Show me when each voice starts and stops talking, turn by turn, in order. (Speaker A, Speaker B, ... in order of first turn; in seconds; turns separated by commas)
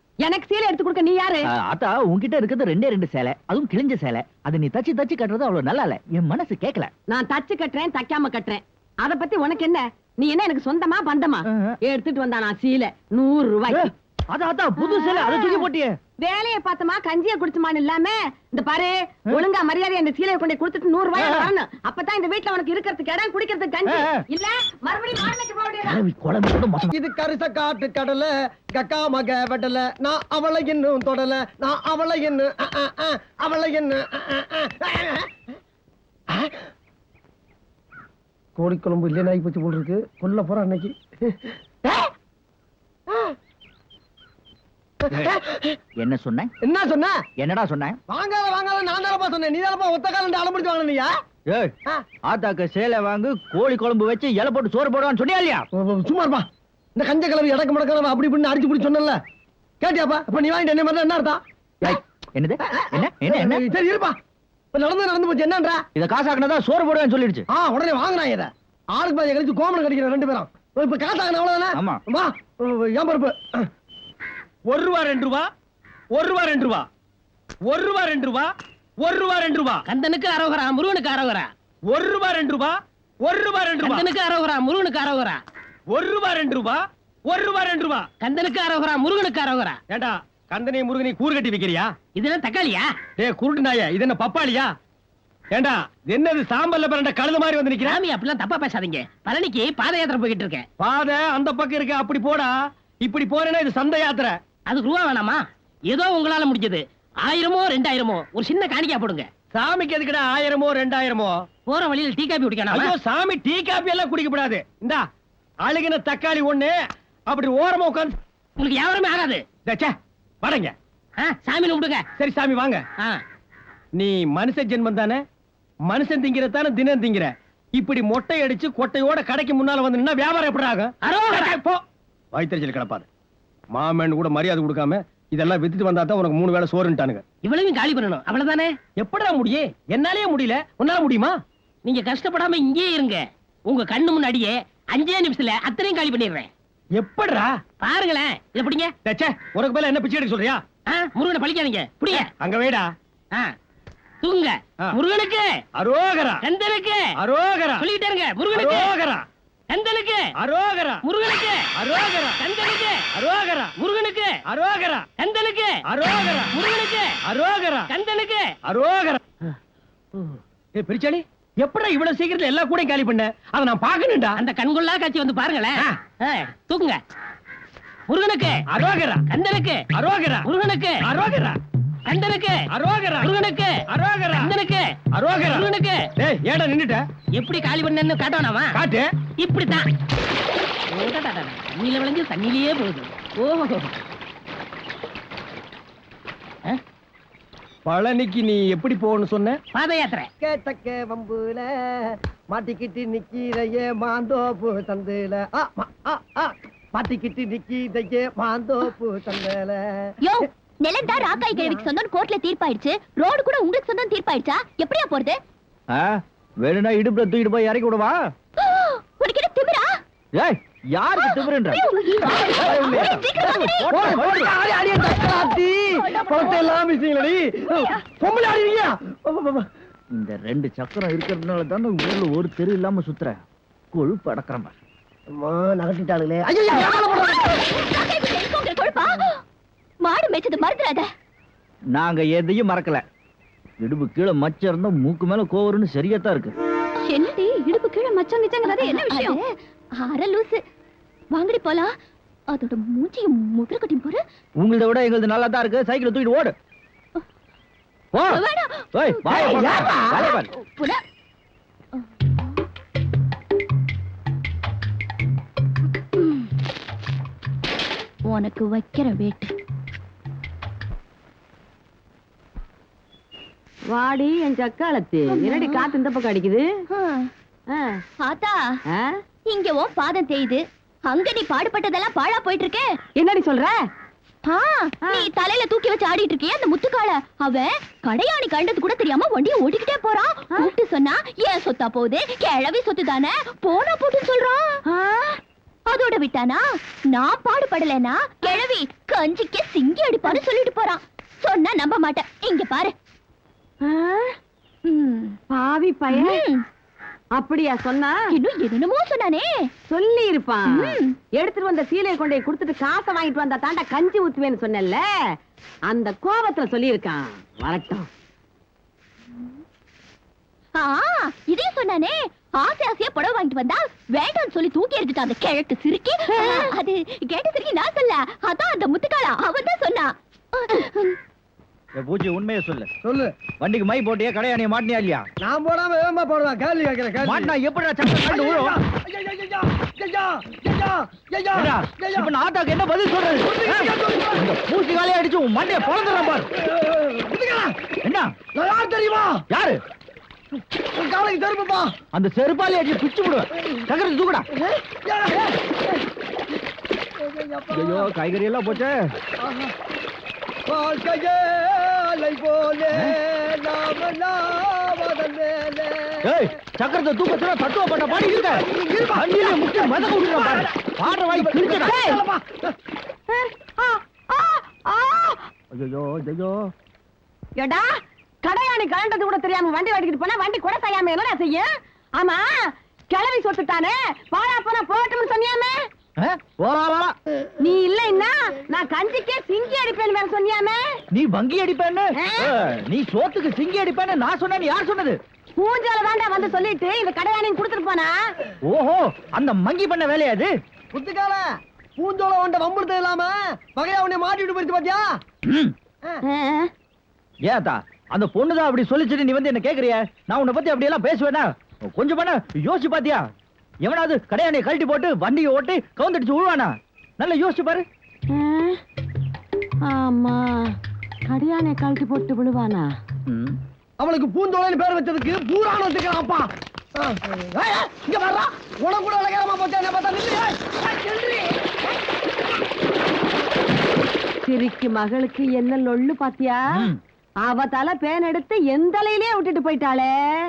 Speaker A: 0.2-1.5, Speaker B: 1.6-6.9, Speaker A: 7.1-13.9, Speaker B: 11.5-11.7, Speaker B: 13.7-15.9, Speaker A: 14.8-15.7, Speaker A: 16.2-26.0, Speaker B: 21.1-21.5, Speaker B: 23.9-24.2, Speaker B: 25.8-26.9, Speaker C: 26.9-35.3, Speaker C: 38.5-42.1, Speaker C: 43.1-43.3, Speaker C: 45.0-45.8, Speaker B: 46.0-46.5, Speaker C: 46.6-47.1, Speaker B: 47.4-48.0, Speaker C: 48.1-51.1, Speaker B: 51.5-51.7, Speaker B: 52.3-55.6, Speaker C: 55.7-59.2, Speaker C: 59.8-61.9, Speaker B: 61.8-63.6, Speaker C: 63.0-64.2, Speaker C: 64.7-65.8, Speaker B: 65.9-67.5, Speaker C: 67.5-73.7, Speaker B: 71.7-72.0, Speaker D: 74.7-75.5, Speaker D: 76.1-76.8, Speaker D: 77.7-79.8, Speaker E: 79.9-81.5, Speaker D: 81.8-84.1, Speaker E: 83.9-85.4, Speaker D: 85.9-88.1, Speaker E: 88.2-89.8, Speaker D: 89.9-91.9, Speaker E: 92.2-92.9, Speaker D: 93.2-94.7, Speaker D: 95.5-98.0, Speaker E: 97.9-100.7, Speaker D: 100.8-104.3, Speaker E: 104.7-109.3, Speaker D: 109.5-111.4, Speaker E: 111.7-112.9, Speaker D: 112.7-115.0, Speaker D: 115.6-116.7, Speaker D: 117.3-118.2, Speaker E: 118.6-119.4, Speaker D: 119.7-120.7, Speaker E: 121.2-122.0, Speaker D: 122.2-122.8, Speaker D: 124.0-125.2, Speaker D: 125.9-131.8, Speaker E: 131.0-131.5, Speaker D: 132.3-133.0, Speaker D: 133.7-137.2, Speaker E: 137.4-138.7, Speaker D: 139.0-141.4, Speaker E: 141.8-146.5, Speaker D: 146.9-147.5, Speaker E: 147.8-148.9, Speaker D: 149.0-150.6, Speaker E: 150.9-152.2, Speaker D: 152.1-152.9, Speaker E: 154.2-155.5, Speaker D: 155.7-156.4, Speaker E: 156.4-157.0, Speaker D: 157.2-157.9, Speaker E: 157.8-158.9, Speaker D: 158.5-159.2, Speaker E: 159.7-160.2, Speaker D: 160.4-161.0, Speaker E: 161.0-161.6, Speaker D: 161.7-162.4, Speaker E: 162.4-163.0, Speaker D: 163.1-163.8, Speaker E: 163.8-164.3, Speaker D: 164.5-165.1, Speaker E: 165.2-165.8, Speaker D: 165.8-166.5, Speaker E: 166.5-167.2, Speaker D: 167.2-167.9, Speaker E: 167.9-168.5, Speaker D: 168.7-169.2, Speaker D: 170.2-174.4, Speaker E: 174.4-177.0, Speaker E: 178.1-178.6, Speaker D: 178.7-179.2, Speaker E: 179.3-179.8, Speaker D: 179.9-180.5, Speaker E: 180.4-181.1, Speaker D: 181.0-181.6, Speaker E: 182.1-182.6, Speaker D: 182.7-183.3, Speaker E: 183.2-183.8, Speaker D: 183.9-184.5, Speaker E: 184.4-184.9, Speaker D: 185.1-187.0, Speaker E: 185.5-186.1, Speaker E: 187.3-188.8, Speaker D: 188.7-189.1, Speaker E: 189.4-189.9, Speaker E: 190.9-193.9, Speaker D: 197.8-199.6, Speaker E: 199.7-200.3, Speaker C: 200.4-210.1, Speaker F: 210.2-215.4, Speaker C: 211.1-211.8, Speaker B: 215.9-218.1, Speaker F: 218.6-219.8, Speaker B: 220.3-221.8, Speaker F: 221.2-223.9, Speaker B: 222.5-224.5, Speaker C: 223.9-229.7, Speaker F: 226.1-226.6, Speaker B: 230.1-234.7, Speaker C: 235.3-237.5, Speaker F: 236.7-239.4, Speaker F: 240.0-241.1, Speaker B: 241.9-243.0, Speaker B: 243.8-246.5, Speaker F: 247.1-247.9, Speaker A: 248.2-249.3, Speaker F: 248.6-249.5, Speaker F: 250.0-250.6, Speaker F: 251.3-251.9, Speaker F: 252.5-254.2, Speaker B: 254.6-256.5, Speaker B: 258.1-258.4, Speaker F: 258.3-261.0, Speaker B: 258.9-260.5, Speaker F: 268.2-269.5, Speaker A: 273.9-276.6, Speaker F: 275.3-275.9, Speaker F: 276.9-277.3, Speaker A: 277.7-278.0, Speaker F: 278.2-278.6, Speaker F: 279.5-282.9, Speaker A: 283.1-283.8, Speaker F: 284.5-294.8, Speaker A: 294.9-295.4, Speaker F: 295.9-302.9, Speaker A: 303.8-304.3, Speaker F: 304.9-305.4, Speaker A: 305.5-306.4, Speaker F: 306.1-306.6, Speaker A: 307.4-308.2, Speaker F: 308.3-309.7, Speaker A: 309.9-315.0, Speaker F: 310.7-311.1, Speaker A: 315.9-318.1, Speaker F: 320.8-331.1, Speaker A: 326.4-326.6, Speaker B: 332.0-332.9, Speaker C: 333.0-333.3, Speaker B: 333.6-335.3, Speaker C: 335.4-337.5, Speaker B: 337.2-338.8, Speaker C: 338.1-342.3, Speaker B: 341.6-346.5, Speaker C: 343.4-344.5, Speaker C: 345.8-347.7, Speaker B: 348.0-348.3, Speaker C: 348.5-349.4, Speaker B: 349.5-349.8, Speaker C: 350.9-351.9, Speaker B: 352.1-354.5, Speaker C: 354.6-356.0, Speaker C: 357.2-358.1, Speaker B: 357.7-359.1, Speaker C: 359.4-359.7, Speaker C: 360.7-366.3, Speaker B: 366.2-372.0, Speaker C: 368.1-370.7, Speaker C: 371.3-372.7, Speaker A: 371.7-372.2, Speaker A: 373.3-375.4, Speaker B: 375.7-376.7, Speaker A: 377.6-377.9, Speaker A: 378.4-382.5, Speaker A: 383.1-385.8, Speaker B: 386.2-387.1, Speaker A: 387.6-390.8, Speaker B: 391.1-395.2, Speaker A: 392.2-392.5, Speaker A: 395.6-398.1, Speaker B: 398.6-400.5, Speaker C: 400.9-401.4, Speaker C: 402.0-405.1, Speaker B: 405.4-405.7, Speaker A: 406.3-406.7, Speaker B: 407.4-413.2, Speaker B: 413.8-417.9, Speaker A: 418.3-418.8, Speaker A: 419.8-420.7, Speaker A: 421.3-422.9, Speaker B: 423.3-423.6, Speaker C: 424.0-431.5, Speaker A: 434.4-436.6, Speaker B: 436.7-437.0, Speaker A: 437.4-440.1